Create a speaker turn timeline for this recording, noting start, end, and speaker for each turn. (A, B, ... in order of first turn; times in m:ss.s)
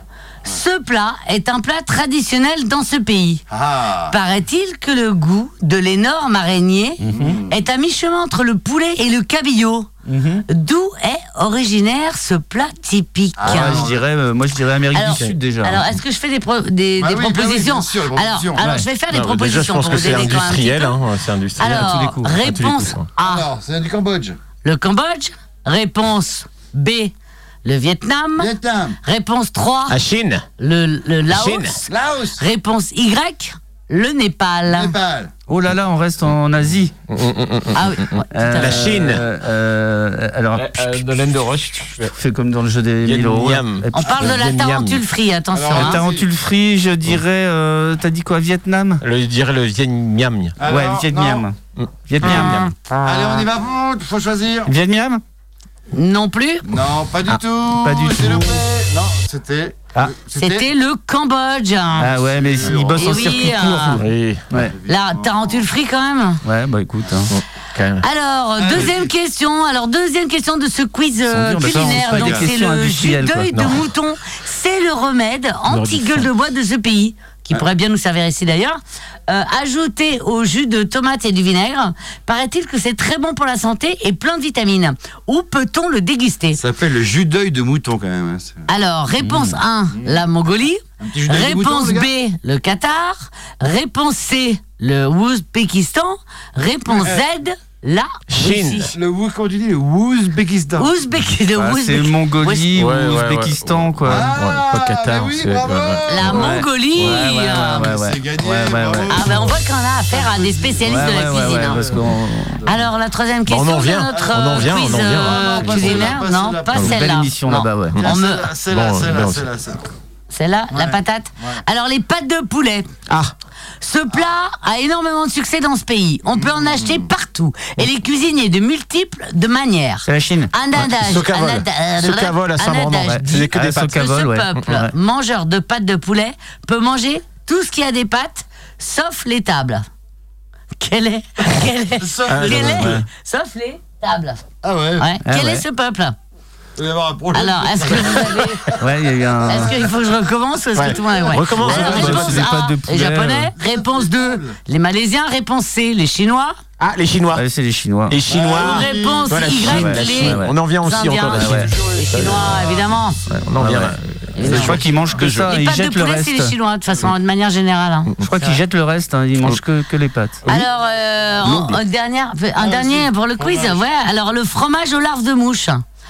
0:00.4-0:03.4 A
0:03.5-0:04.2 B
0:04.1-0:09.9 A
0:07.0-0:07.4 C
0:07.1-0:07.6 B
0:10.1-0:10.4 C
0:10.5-0:13.9 A
0:13.4-0:14.0 B
0:13.4-0:15.9 C
0:14.9-0:21.0 A
0:17.0-0:18.6 B
0:18.6-0:18.8 C
0:19.1-0:23.1 D
0:21.6-0:23.5 A
0:21.6-0:22.5 C
0:23.2-0:24.4 B
0:24.6-0:27.1 A
0:27.6-0:30.0 A
0:28.4-0:29.0 B
0:29.9-0:30.4 D
0:30.6-0:35.0 A
0:31.3-0:31.8 D
0:31.9-0:32.4 B
0:34.7-0:35.3 B
0:35.5-0:36.9 C
0:37.1-0:39.2 D
0:37.7-0:39.0 A
0:38.3-0:41.0 C
0:40.6-0:42.1 D
0:42.0-0:44.2 C
0:43.0-0:45.0 D
0:43.9-0:46.0 A
0:45.5-0:46.3 B
0:45.7-0:49.0 C
0:49.0-0:50.5 D
0:50.6-0:51.4 B
0:50.6-0:51.6 C
0:51.8-0:52.7 D
0:52.1-0:52.7 C
0:52.4-0:52.7 A
0:53.0-0:54.7 B
0:54.7-0:55.2 C
0:55.9-0:56.7 A
0:56.6-1:00.7 B
0:57.8-0:58.6 C
1:00.4-1:02.1 A
1:02.0-1:04.7 C
1:02.0-1:03.5 B
1:02.9-1:04.0 A
1:03.4-1:04.4 D
1:04.5-1:05.7 B
1:04.9-1:06.4 A
1:06.4-1:07.3 C
1:07.3-1:08.0 D
1:08.0-1:26.6 A
1:08.6-1:09.1 B
1:11.3-1:13.5 C
1:11.6-1:12.5 B
1:13.5-1:13.9 D
1:15.7-1:16.3 D
1:26.5-1:28.6 B
1:28.7-1:38.8 A
1:29.2-1:29.6 C
1:29.9-1:30.2 B
1:31.0-1:32.1 B
1:36.9-1:37.2 B
1:38.3-1:38.9 D
1:38.7-1:40.9 B
1:40.8-1:42.8 A
1:41.6-1:44.3 C
1:42.8-1:47.2 D
1:44.0-1:46.6 B
1:46.1-1:47.9 A
1:46.2-1:49.2 C
1:47.5-1:52.0 B
1:49.1-1:51.9 A
1:50.8-1:52.6 C
1:52.6-1:58.5 A
1:53.5-1:56.2 D
1:54.1-1:57.0 B
1:56.7-1:58.0 C
1:58.0-1:59.9 B
1:58.7-1:59.5 D
2:00.3-2:02.9 A
2:00.7-2:01.6 B
2:03.1-2:03.3 D
2:03.8-2:19.9 A
2:06.3-2:07.1 B
2:10.0-2:10.5 C
2:10.7-2:14.0 D
2:13.0-2:14.9 C
2:20.8-2:24.4 A
2:22.0-2:23.0 B
2:22.3-2:23.0 D
2:22.7-2:23.0 C
2:24.6-2:25.1 B
2:25.0-2:26.2 A
2:25.2-2:25.6 C
2:26.8-2:28.7 B
2:27.3-2:28.7 A
2:28.8-2:29.7 C
2:29.3-2:30.0 B
2:29.4-2:36.6 A
2:30.7-2:32.4 D
2:30.8-2:32.4 B
2:31.6-2:33.5 C
2:33.5-2:34.6 B
2:36.8-2:37.4 D
2:37.3-2:38.2 C
2:38.1-2:42.7 D
2:38.3-2:39.6 B
2:38.5-2:43.2 A
2:39.5-2:40.6 C
2:41.3-2:41.7 C
2:41.5-2:43.0 B
2:43.3-2:45.6 D
2:43.6-2:46.5 C
2:44.4-2:44.8 A
2:44.4-2:45.1 B
2:45.4-2:48.6 A
2:48.2-2:50.5 C
2:50.5-2:55.8 A
2:51.4-2:51.7 C
2:52.5-2:53.8 B